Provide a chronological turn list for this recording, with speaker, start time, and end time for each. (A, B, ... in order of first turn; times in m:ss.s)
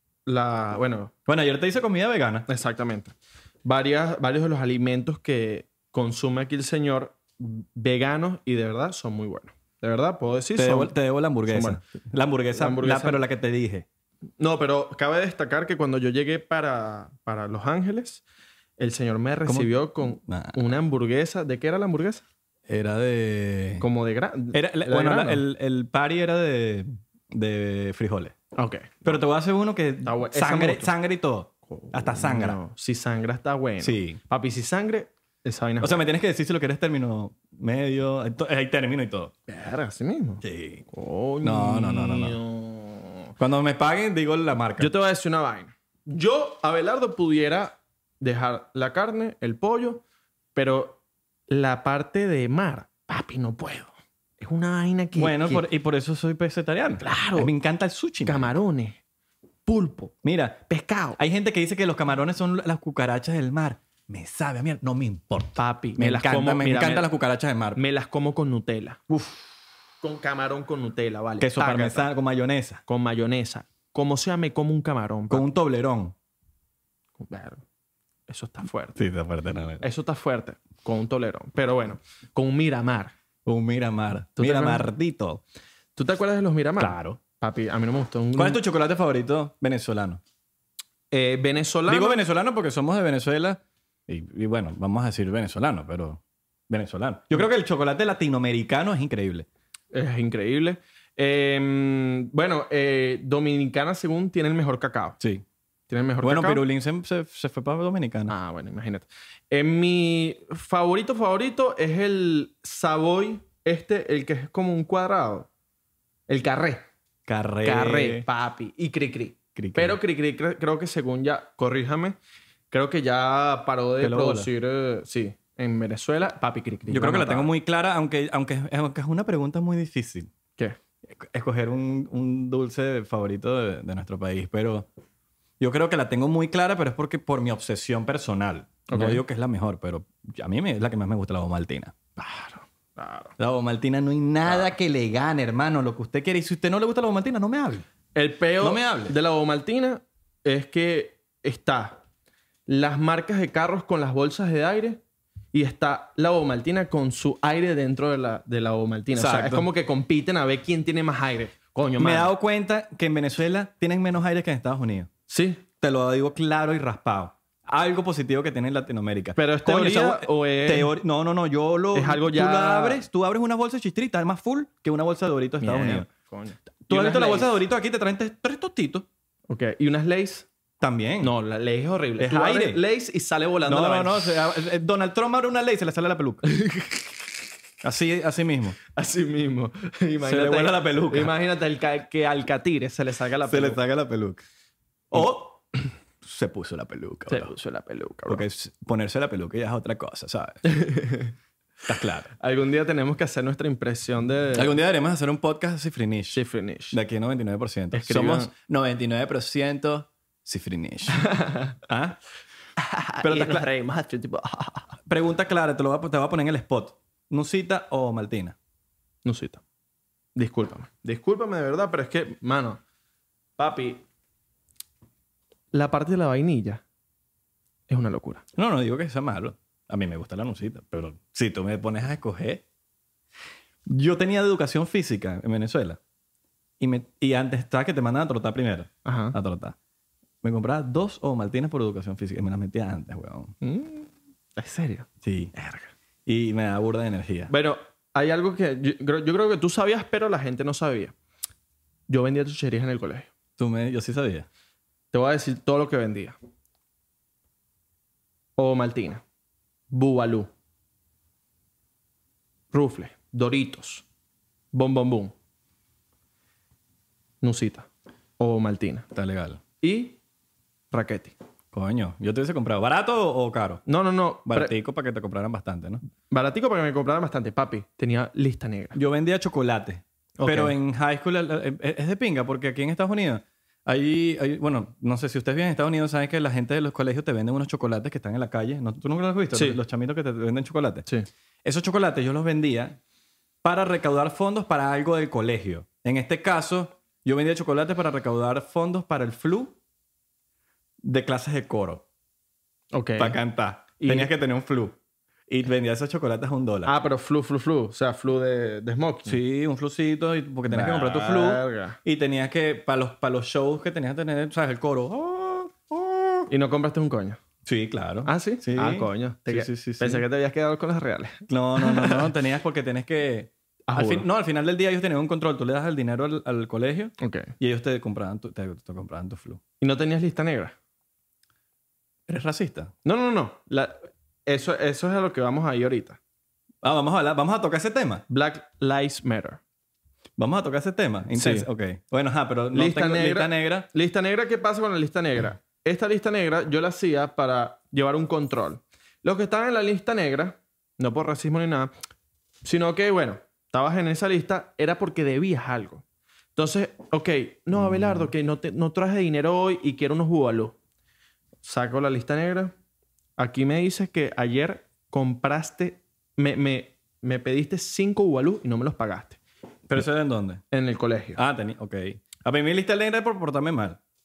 0:00.3-0:01.1 A
0:01.3-0:02.5 B
0:02.5-0:10.9 A
0:10.6-0:13.9 B
0:11.5-0:11.8 A
0:12.6-0:13.2 A
0:14.4-0:18.2 A
0:18.8-0:22.2 A
0:19.5-0:20.6 B
0:22.7-0:23.8 B
0:23.8-0:25.4 A
0:24.5-0:28.4 B
0:28.6-0:29.2 A
0:29.0-0:32.6 B
0:30.0-0:30.9 A
0:31.7-0:36.0 A
0:33.8-0:34.2 B
0:35.8-0:39.3 B
0:39.5-0:43.3 A
0:40.4-0:40.9 B
0:41.4-0:42.4 B
0:43.4-0:45.0 B
0:44.8-0:50.0 A
0:50.6-0:55.7 A
0:55.2-0:58.5 B
0:57.0-0:57.5 A
0:58.2-0:59.0 A
0:59.7-1:00.1 A
1:00.2-1:00.6 B
1:00.7-1:01.2 A
1:01.2-1:07.8 B
1:05.6-1:07.1 A
1:07.8-1:09.0 A
1:09.1-1:09.4 B
1:10.0-1:12.1 A
1:11.4-1:12.8 B
1:12.9-1:15.5 A
1:15.3-1:16.2 B
1:17.2-1:17.6 A
1:18.3-1:19.0 A
1:19.0-1:19.8 B
1:19.8-1:23.1 A
1:23.4-1:25.4 B
1:24.4-1:24.9 A
1:26.0-1:28.6 A
1:26.8-1:27.2 B
1:28.4-1:30.2 B
1:31.1-1:32.2 A
1:31.9-1:39.5 B
1:39.9-1:45.2 A
1:45.2-1:45.4 B
1:45.9-1:46.6 A
1:46.2-1:48.3 B
1:48.3-1:55.5 A
1:56.3-1:56.9 A
1:57.3-1:58.3 B
1:57.6-2:02.2 A
1:59.6-2:00.0 B
2:02.7-2:07.5 A
2:04.0-2:04.5 B
2:06.9-2:10.3 B
2:11.1-2:14.9 B
2:15.6-2:21.9 B
2:18.9-2:19.2 A
2:22.2-2:23.3 A
2:23.4-2:27.9 B
2:28.2-2:32.0 A
2:28.6-2:29.1 B
2:32.7-2:35.0 A
2:35.5-2:42.3 A
2:39.1-2:39.7 B
2:42.0-2:45.1 B
2:45.3-2:45.6 A
2:45.8-2:56.1 B
2:49.4-2:50.9 A
2:51.9-2:53.1 A
2:55.6-2:57.5 A
2:56.9-2:59.1 B
2:59.5-3:00.5 A
3:00.8-3:01.3 B
3:01.2-3:04.3 A
3:02.2-3:02.8 B
3:03.7-3:06.4 B
3:06.5-3:07.1 A
3:07.8-3:08.8 B
3:09.0-3:13.8 A
3:10.2-3:11.3 B
3:13.5-3:14.4 B
3:15.1-3:15.6 B
3:16.2-3:17.5 B
3:17.3-3:18.4 A
3:18.3-3:20.6 B
3:20.6-3:21.3 A
3:21.9-3:22.3 B
3:22.4-3:24.7 A
3:24.6-3:26.4 B
3:26.3-3:27.0 A
3:26.9-3:31.3 B
3:27.9-3:28.5 A
3:31.2-3:31.8 A
3:31.8-3:32.2 B
3:32.8-3:35.0 A
3:33.2-3:33.7 B
3:35.1-3:38.6 B
3:39.2-3:39.6 A
3:40.4-3:42.8 A
3:43.6-3:44.0 A
3:45.7-3:46.8 A
3:47.9-3:48.4 A
3:48.6-3:52.6 B
3:53.9-3:56.0 B
3:56.8-3:59.8 B
3:59.0-3:59.4 A
4:00.4-4:03.5 B
4:03.6-4:05.9 A
4:05.2-4:05.5 B
4:06.3-4:07.5 B
4:07.5-4:11.2 A
4:12.1-4:13.3 A
4:13.6-4:14.5 B
4:15.1-4:16.4 A
4:18.6-4:19.2 A
4:19.9-4:20.5 A
4:22.7-4:24.0 A
4:24.7-4:25.3 A
4:27.4-4:27.9 A
4:28.4-4:29.1 A
4:29.1-4:29.6 B
4:29.8-4:30.2 A
4:30.9-4:31.4 A
4:31.7-4:33.8 B
4:33.9-4:34.7 A
4:34.5-4:36.0 B
4:36.3-4:39.0 A
4:39.0-4:51.1 B
4:40.4-4:40.8 A
4:49.5-4:49.8 A
4:51.6-4:53.0 B
4:53.6-4:59.8 B
5:01.0-5:02.0 B
5:02.9-5:03.4 A
5:03.2-5:05.0 B
5:04.0-5:04.3 A
5:05.5-5:06.9 B
5:06.8-5:09.4 A
5:09.3-5:16.5 B
5:10.7-5:12.0 A
5:16.5-5:17.4 A
5:17.6-5:20.2 B
5:18.3-5:22.3 A
5:21.5-5:29.6 B
5:23.9-5:24.3 A
5:27.2-5:27.5 A
5:29.8-5:30.8 A
5:32.3-5:32.9 B
5:33.0-5:36.2 A
5:36.8-5:38.2 B
5:38.3-5:39.6 A
5:40.4-5:43.9 B
5:41.3-5:41.7 A
5:42.7-5:51.9 A
5:52.6-5:56.0 A
5:56.6-6:00.8 A
5:57.8-5:58.3 B
6:01.6-6:02.7 A
6:03.4-6:09.4 A
6:09.9-6:10.6 B
6:10.7-6:11.4 A
6:11.4-6:14.0 B